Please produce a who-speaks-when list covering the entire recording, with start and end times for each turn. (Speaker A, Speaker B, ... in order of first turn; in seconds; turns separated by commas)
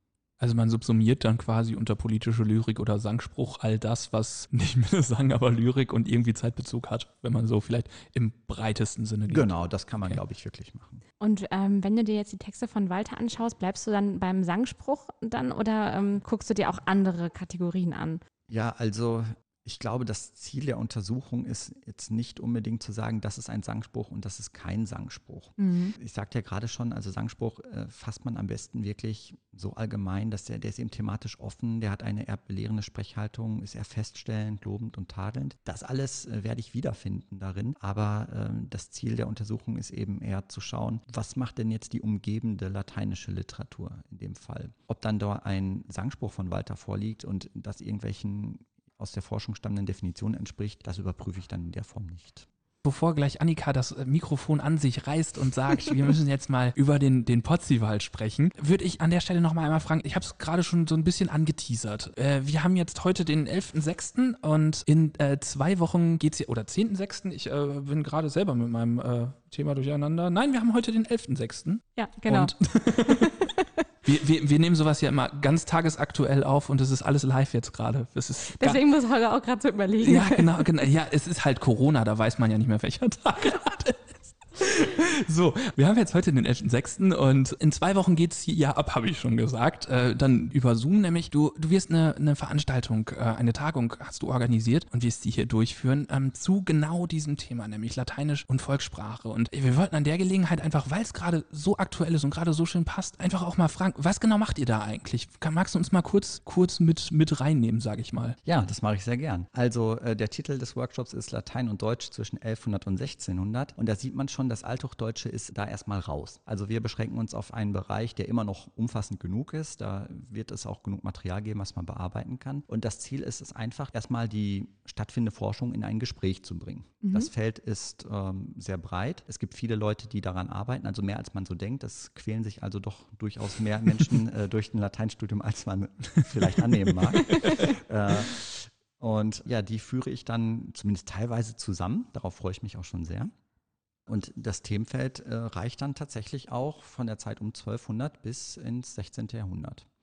Speaker A: 0.4-9.5, Speaker B: 9.3-11.0, Speaker C: 11.2-18.2, Speaker B: 18.5-52.5, Speaker C: 25.6-25.9, Speaker A: 52.9-73.5, Speaker C: 72.0-73.7, Speaker A: 74.0-78.8, Speaker C: 78.5-80.7, Speaker A: 80.0-108.4, Speaker B: 108.4-143.3, Speaker C: 127.0-127.3, Speaker B: 144.1-149.9